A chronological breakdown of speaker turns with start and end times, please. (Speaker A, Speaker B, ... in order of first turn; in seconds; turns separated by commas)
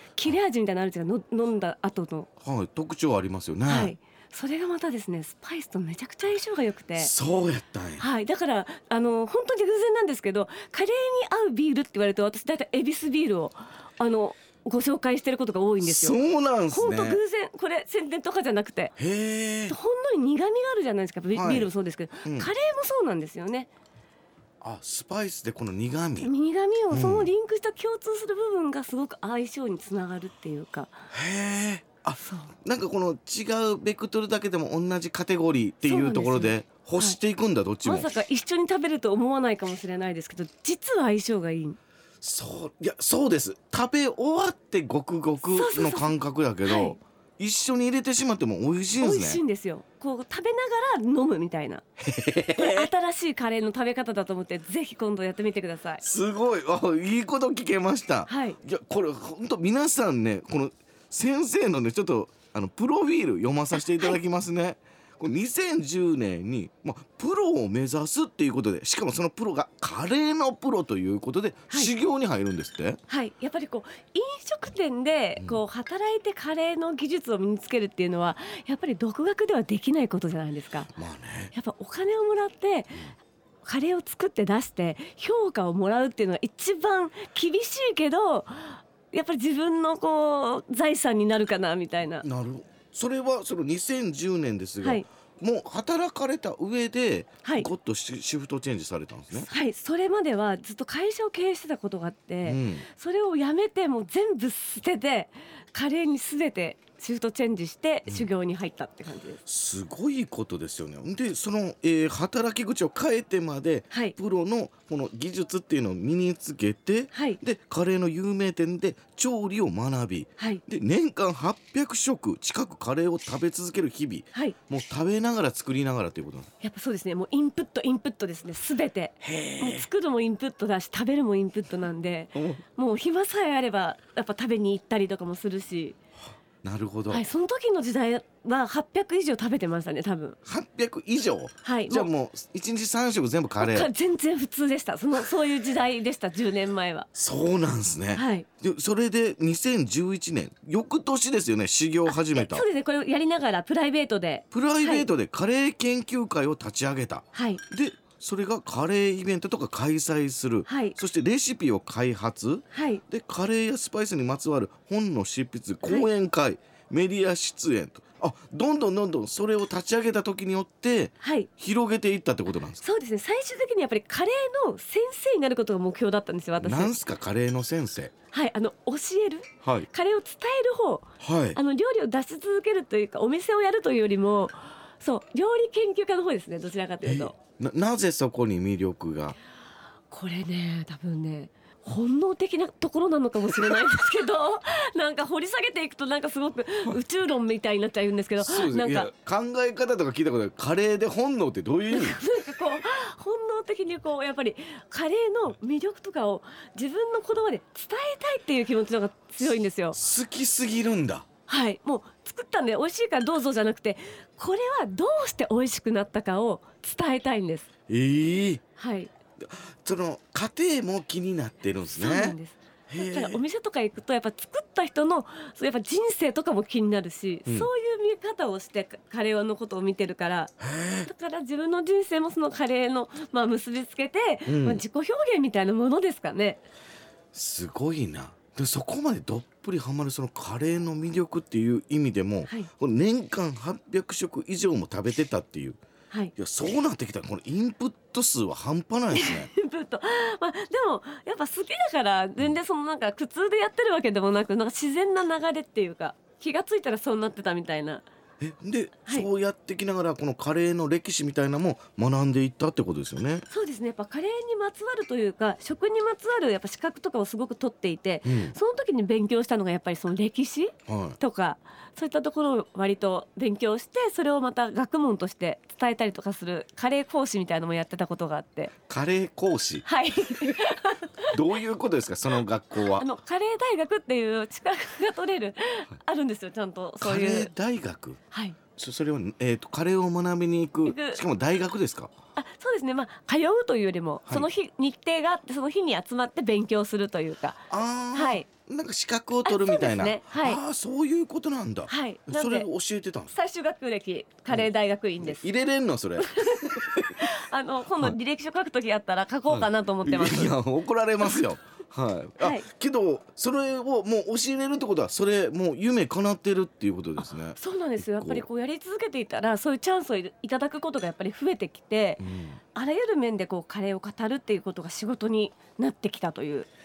Speaker A: 0.2-2.3, Speaker B: 2.4-4.0, Speaker A: 3.7-7.1, Speaker B: 7.0-8.1, Speaker A: 8.0-18.9, Speaker B: 15.8-17.2, Speaker B: 19.0-19.8, Speaker A: 19.7-23.7, Speaker B: 21.3-21.7, Speaker B: 22.2-22.5, Speaker B: 24.6-26.3, Speaker A: 26.2-30.9, Speaker B: 26.9-27.3, Speaker B: 31.1-38.1, Speaker A: 32.2-32.5, Speaker A: 35.9-37.2, Speaker A: 37.8-41.8, Speaker B: 42.2-49.4, Speaker A: 45.5-47.0, Speaker A: 49.0-51.8, Speaker B: 52.0-52.9, Speaker A: 52.6-56.0, Speaker B: 56.0-73.0, Speaker A: 58.3-58.6, Speaker A: 73.1-80.9, Speaker B: 75.4-75.6, Speaker B: 81.0-81.5, Speaker A: 81.5-83.1, Speaker A: 83.6-92.3, Speaker B: 92.2-99.5, Speaker A: 97.4-97.7, Speaker A: 99.3-109.4, Speaker B: 102.4-102.9, Speaker B: 109.5-126.5, Speaker A: 113.9-114.2, Speaker A: 117.1-117.4, Speaker A: 120.4-120.6, Speaker A: 126.6-136.0, Speaker B: 129.2-129.9, Speaker B: 132.3-132.6, Speaker B: 136.6-137.3, Speaker A: 137.1-140.4, Speaker B: 140.5-143.9, Speaker A: 141.6-142.1, Speaker A: 143.6-147.1, Speaker B: 147.2-152.7, Speaker A: 148.1-148.5, Speaker A: 152.1-155.1, Speaker B: 154.5-172.8, Speaker A: 157.3-157.6, Speaker A: 160.7-161.0, Speaker A: 162.7-163.0, Speaker A: 171.2-171.5, Speaker A: 172.8-176.9, Speaker B: 176.6-178.1, Speaker A: 178.3-187.4, Speaker B: 179.6-179.9, Speaker B: 181.2-181.6, Speaker B: 187.0-189.4, Speaker A: 190.1-199.1, Speaker B: 198.4-202.2, Speaker A: 201.9-210.0, Speaker B: 209.9-211.3, Speaker A: 211.5-217.7, Speaker B: 217.9-218.6, Speaker A: 218.8-219.1, Speaker B: 219.4-222.4, Speaker A: 221.9-236.6, Speaker B: 222.9-223.4, Speaker B: 230.6-231.1, Speaker B: 234.5-234.8, Speaker B: 237.3-245.8, Speaker B: 246.4-249.5, Speaker A: 249.1-258.1, Speaker B: 258.4-263.4, Speaker A: 263.5-278.7, Speaker B: 268.2-268.6, Speaker B: 270.9-271.2, Speaker B: 278.9-279.9, Speaker A: 279.9-281.4, Speaker B: 281.3-283.1, Speaker A: 282.8-287.5, Speaker B: 287.0-288.2, Speaker A: 288.3-288.6, Speaker B: 288.8-292.1, Speaker A: 290.8-291.2, Speaker A: 292.4-298.5, Speaker B: 297.7-303.3, Speaker A: 299.4-300.6, Speaker A: 301.9-302.7, Speaker A: 303.3-305.5, Speaker B: 305.2-307.3, Speaker A: 306.2-310.6, Speaker B: 309.5-318.5, Speaker A: 312.4-312.7, Speaker A: 317.2-326.7, Speaker B: 322.2-322.6